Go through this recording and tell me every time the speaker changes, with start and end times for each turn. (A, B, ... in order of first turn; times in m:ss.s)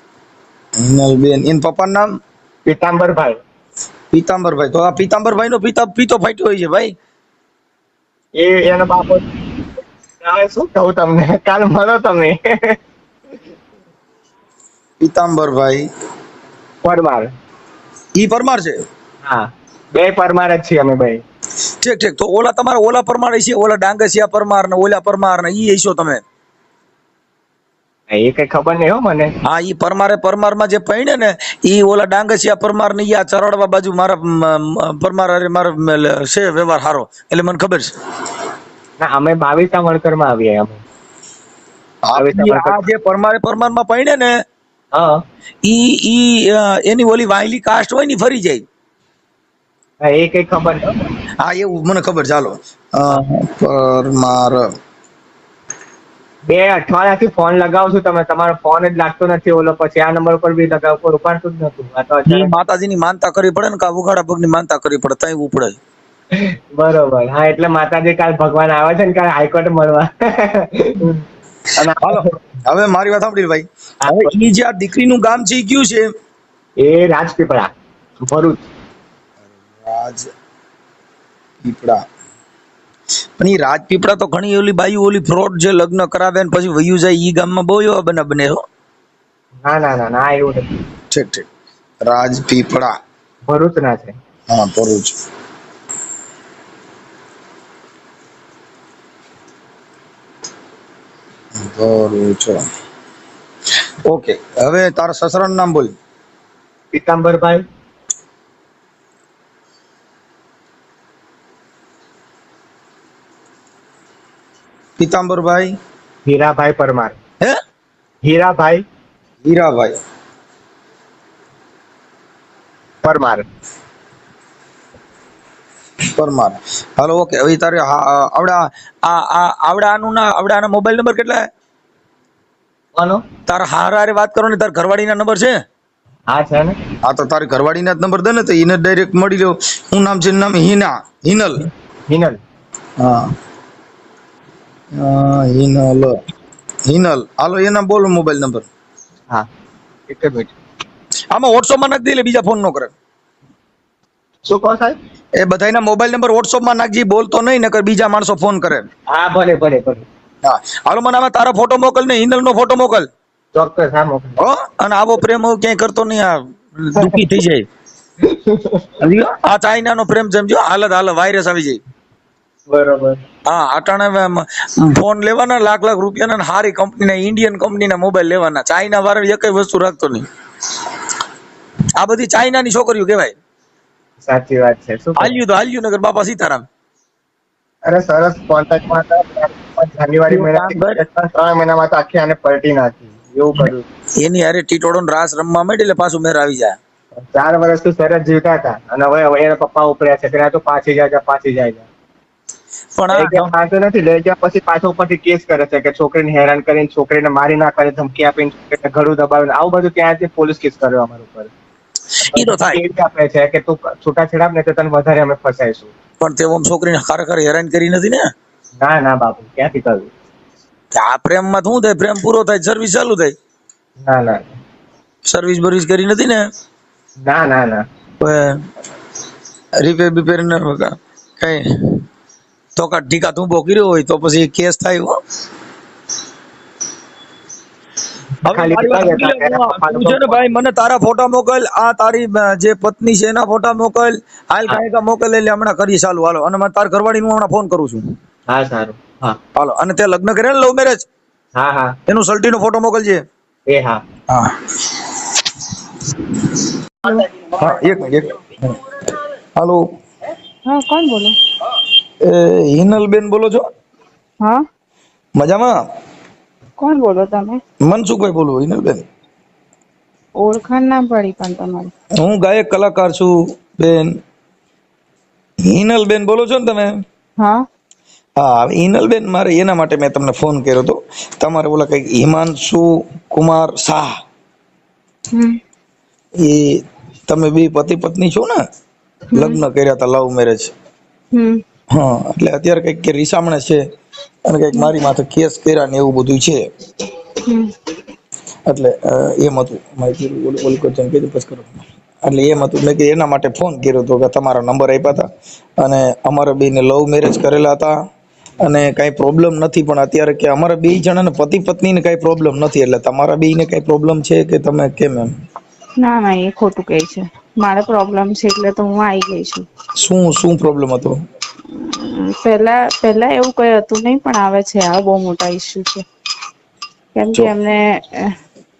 0:00.8-0:02.1 A
0:02.6-0:03.4 B
0:04.1-0:07.0 A
0:08.4-0:09.6 B
0:10.2-0:12.8 B
0:15.0-0:15.9 A
0:16.8-0:17.3 B
0:18.1-0:18.8 A
0:19.2-0:21.2 B
0:21.8-0:26.2 A
0:28.1-0:29.3 B
0:29.4-0:37.9 A
0:39.0-0:40.8 B
0:42.0-0:44.3 A
0:42.2-0:42.8 B
0:44.9-0:45.2 B
0:45.6-0:48.6 A
0:50.0-0:51.1 B
0:51.4-0:54.7 A
0:56.4-1:02.5 B
1:02.3-1:05.8 A
1:06.3-1:11.2 B
1:11.8-1:12.4 B
1:11.8-1:16.1 A
1:14.0-1:14.3 B
1:16.8-1:17.7 B
1:18.2-1:18.7 B
1:19.5-1:20.3 A
1:21.6-1:22.0 A
1:23.4-1:28.6 A
1:29.6-1:30.7 B
1:31.1-1:31.5 A
1:32.0-1:33.0 A
1:33.4-1:34.2 B
1:34.5-1:35.2 A
1:41.6-1:42.6 A
1:44.0-1:45.9 A
1:46.9-1:47.6 B
1:55.0-1:55.8 A
1:56.2-1:57.2 B
1:58.2-1:58.8 B
1:59.4-2:00.0 A
2:03.0-2:03.4 B
2:06.1-2:11.5 A
2:12.9-2:13.2 B
2:13.4-2:15.6 A
2:16.3-2:16.8 B
2:17.0-2:21.7 A
2:22.1-2:22.4 B
2:23.0-2:23.4 A
2:24.9-2:26.2 A
2:26.8-2:28.7 A
2:30.1-2:30.5 B
2:31.3-2:32.9 A
2:34.4-2:35.0 B
2:35.4-2:38.9 A
2:39.1-2:40.0 B
2:40.4-2:43.1 A
2:43.5-2:44.4 B
2:44.4-2:47.7 A
2:48.2-2:49.0 B
2:49.0-2:51.8 A
2:52.7-2:53.2 B
2:53.4-3:00.3 A
3:02.0-3:03.3 A
3:04.2-3:05.4 B
3:05.2-3:06.7 A
3:07.8-3:13.9 B
3:10.3-3:11.0 A
3:13.6-3:16.8 A
3:17.2-3:21.9 B
3:23.0-3:23.4 A
3:23.1-3:31.5 B
3:32.1-3:32.8 A
3:32.3-3:35.9 B
3:36.2-3:38.3 A
3:38.8-3:40.1 B
3:40.9-3:43.4 A
3:44.0-3:44.6 B
3:45.3-3:46.5 A
3:47.2-3:47.8 B
3:48.2-3:48.6 A
3:49.8-3:52.0 A
3:52.8-3:55.2 A
3:58.4-4:00.4 B
3:58.4-4:08.1 A
4:08.5-4:09.4 B
4:09.6-4:11.1 A
4:11.6-4:12.0 B
4:12.1-4:13.2 A
4:13.7-4:14.0 B
4:14.3-4:15.4 A
4:17.6-4:19.0 A
4:19.6-4:19.9 A
4:20.7-4:21.4 C
4:22.2-4:23.7 A
4:25.4-4:25.8 A
4:26.8-4:27.6 C
4:27.8-4:29.0 A
4:30.4-4:31.9 C
4:32.2-4:34.2 A
4:35.6-4:37.0 A
4:37.4-4:37.6 C
4:38.4-4:44.2 A
4:45.3-4:45.6 C
4:46.4-4:48.6 A
4:49.3-4:49.6 C
4:49.3-4:50.7 A
4:51.3-4:51.6 C
4:51.9-4:53.8 A
4:54.4-4:56.7 A
4:57.4-4:57.7 C
4:58.7-5:05.3 A
5:05.8-5:08.0 A
5:08.6-5:15.3 A
5:16.0-5:19.7 C
5:20.0-5:21.2 A
5:21.7-5:26.0 C
5:27.2-5:28.3 C